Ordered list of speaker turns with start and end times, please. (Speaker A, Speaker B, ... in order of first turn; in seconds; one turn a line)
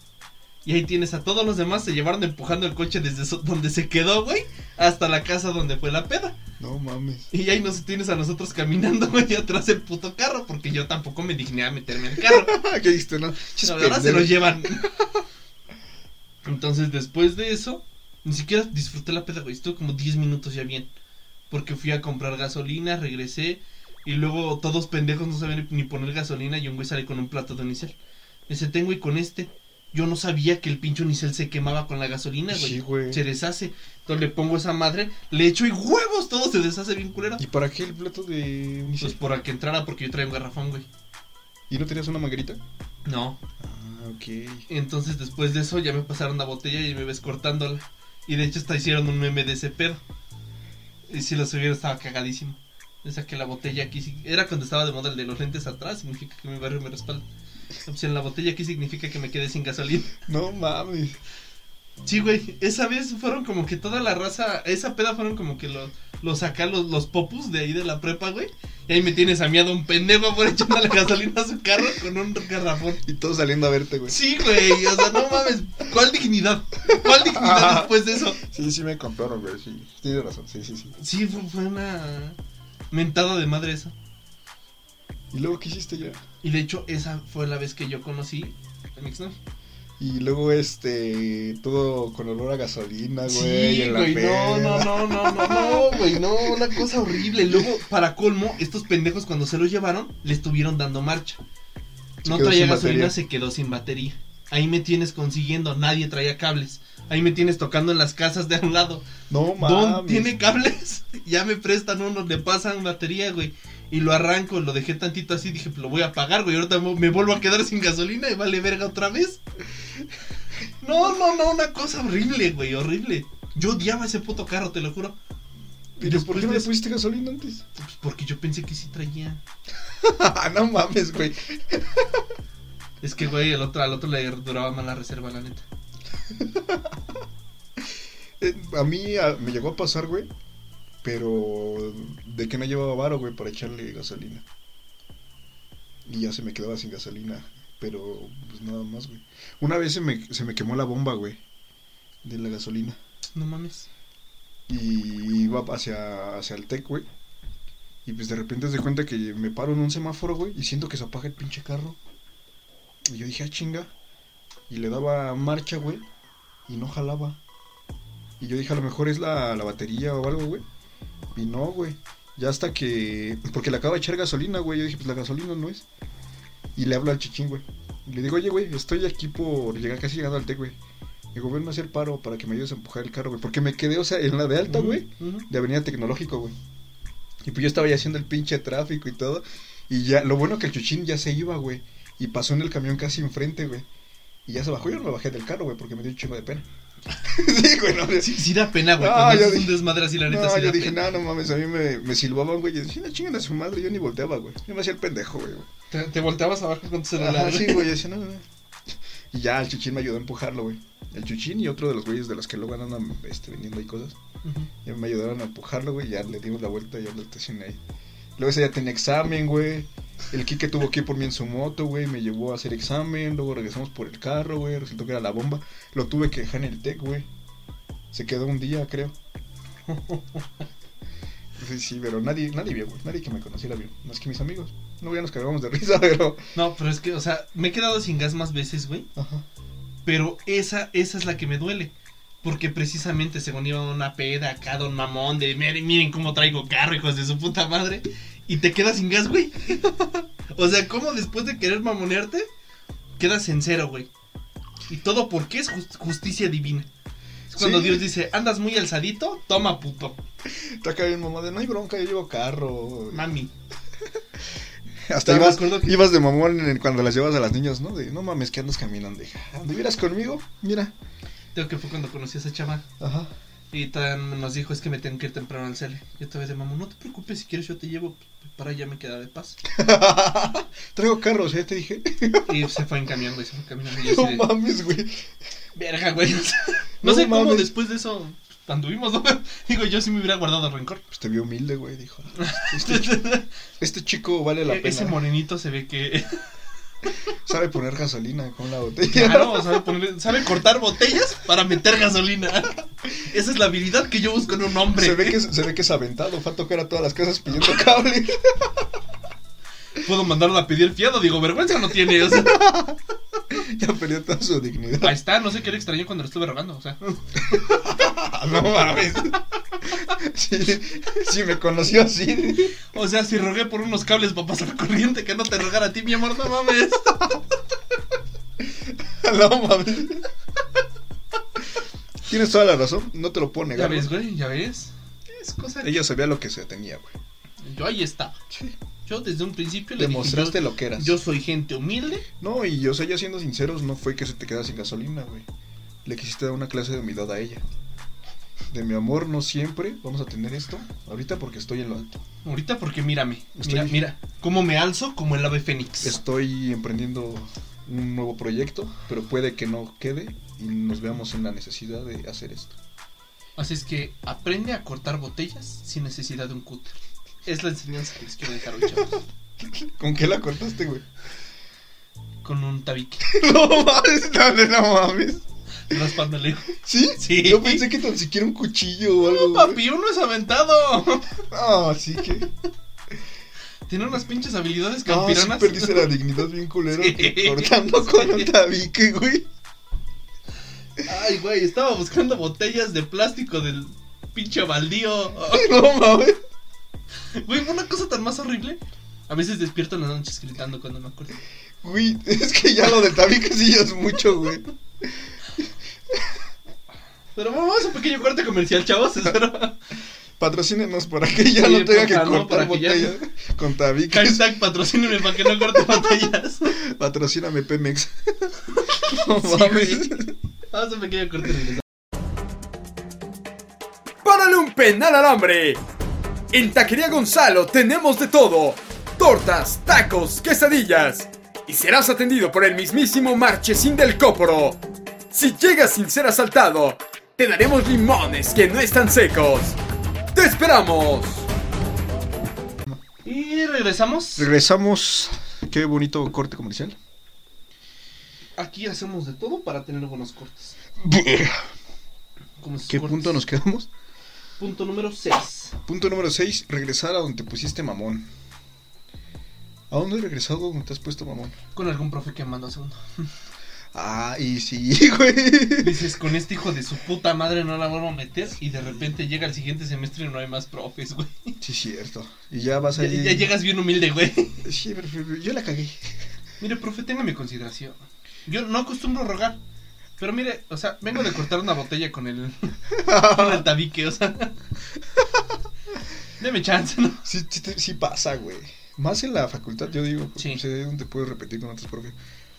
Speaker A: 0.6-6.4
Speaker B: 6.6-7.3
Speaker A: 7.3-12.5
Speaker B: 12.2-14.9
Speaker A: 13.6-14.9
Speaker A: 16.4-20.9
Speaker A: 21.5-27.9
Speaker A: 28.5-37.4
Speaker B: 32.5-33.2
Speaker B: 37.4-39.2
Speaker A: 39.0-40.9
Speaker B: 41.7-42.6
Speaker A: 43.0-43.4
Speaker B: 43.6-44.6
Speaker A: 44.7-50.0
Speaker A: 51.1-57.2
Speaker A: 57.8-60.2
Speaker B: 60.2-61.2
Speaker A: 62.0-73.0
Speaker B: 73.0-75.2
Speaker A: 74.1-78.4
Speaker B: 76.9-80.9
Speaker A: 81.0-82.4
Speaker A: 82.9-83.9
Speaker B: 85.3-86.2
Speaker A: 86.4-89.3
Speaker B: 90.0-97.7
Speaker A: 93.2-101.4
Speaker B: 102.2-103.2
Speaker A: 102.2-119.4
Speaker B: 109.3-110.4
Speaker A: 120.8-125.2
Speaker A: 126.0-126.7
Speaker B: 126.0-127.6
Speaker A: 127.8-129.4
Speaker B: 130.0-132.2
Speaker A: 133.0-135.6
Speaker B: 136.3-136.9
Speaker B: 138.4-140.3
Speaker B: 141.0-144.4
Speaker B: 146.1-151.4
Speaker B: 152.2-153.0
Speaker A: 153.3-153.9
Speaker B: 154.7-157.1
Speaker B: 158.0-162.0
Speaker B: 163.1-163.9
Speaker B: 164.7-166.0
Speaker B: 166.7-167.4
Speaker B: 168.4-170.6
Speaker B: 171.3-175.8
Speaker B: 176.7-180.8
Speaker B: 181.3-186.5
Speaker A: 184.6-185.5
Speaker B: 187.4-193.9
Speaker B: 194.4-196.6
Speaker B: 197.2-205.7
Speaker A: 198.1-201.1
Speaker A: 205.9-207.9
Speaker B: 207.2-208.4
Speaker B: 209.3-214.2
Speaker A: 214.4-214.7
Speaker B: 214.8-217.8
Speaker B: 218.4-227.3
Speaker B: 228.1-229.1
Speaker A: 229.9-230.5
Speaker B: 231.6-236.4
Speaker A: 236.5-239.1
Speaker B: 239.2-239.4
Speaker A: 240.0-241.9
Speaker A: 242.4-252.5
Speaker A: 253.2-254.1
Speaker A: 254.9-256.9
Speaker A: 257.5-260.2
Speaker B: 257.5-258.1
Speaker B: 260.4-263.2
Speaker A: 263.1-263.5
Speaker B: 265.1-270.9
Speaker A: 265.2-266.0
Speaker A: 271.5-272.8
Speaker B: 273.0-273.3
Speaker A: 273.7-279.6
Speaker B: 279.6-282.7
Speaker A: 282.4-284.5
Speaker B: 283.9-285.2
Speaker A: 285.7-291.0
Speaker B: 287.0-287.7
Speaker B: 291.1-293.2
Speaker A: 292.4-293.5
Speaker B: 293.8-295.2
Speaker A: 294.6-296.5
Speaker B: 297.3-299.9
Speaker A: 299.1-305.4
Speaker B: 304.9-308.9
Speaker A: 309.9-312.6
Speaker B: 312.2-313.0
Speaker B: 313.5-315.2
Speaker A: 315.0-317.8
Speaker B: 317.5-322.8
Speaker A: 322.9-327.4
Speaker B: 328.6-330.2
Speaker B: 332.2-334.1
Speaker A: 333.7-336.0
Speaker B: 335.8-337.1
Speaker A: 337.6-338.4
Speaker B: 338.5-338.8
Speaker A: 339.1-342.2
Speaker B: 340.0-341.2
Speaker B: 342.4-345.5
Speaker B: 346.0-347.6
Speaker B: 348.7-352.2
Speaker A: 352.4-356.2
Speaker B: 353.6-354.1
Speaker B: 356.0-362.8
Speaker A: 363.6-369.2
Speaker B: 369.6-371.0
Speaker A: 372.4-373.3
Speaker B: 373.2-375.4
Speaker A: 375.9-377.9
Speaker B: 376.8-379.8
Speaker A: 379.2-381.4
Speaker B: 381.5-382.5
Speaker A: 383.9-386.1
Speaker B: 385.1-389.5
Speaker A: 386.9-388.5
Speaker A: 391.0-395.7
Speaker B: 395.5-396.4
Speaker A: 397.3-401.4
Speaker B: 401.8-406.3
Speaker A: 407.3-409.8
Speaker B: 410.4-414.6
Speaker A: 411.5-413.2
Speaker A: 414.1-416.8
Speaker B: 415.4-415.8
Speaker B: 416.7-420.3
Speaker A: 418.9-420.1
Speaker A: 420.7-421.8
Speaker C: 424.2-425.8
Speaker C: 426.5-434.8
Speaker C: 435.3-439.8
Speaker C: 440.3-441.5
Speaker A: 443.2-444.5
Speaker B: 444.4-446.9
Speaker A: 448.6-450.8
Speaker B: 451.0-451.6
Speaker A: 452.6-453.4
Speaker B: 452.9-453.9
Speaker A: 454.6-455.8
Speaker B: 455.9-458.3
Speaker B: 459.9-461.5
Speaker A: 461.7-463.3
Speaker B: 463.9-466.1
Speaker A: 465.8-471.6
Speaker B: 471.6-473.6
Speaker A: 473.0-474.6
Speaker B: 474.6-476.1
Speaker A: 476.6-479.6
Speaker A: 480.2-484.6
Speaker B: 482.9-483.7
Speaker A: 486.4-487.2
Speaker B: 487.2-492.1
Speaker A: 490.4-490.6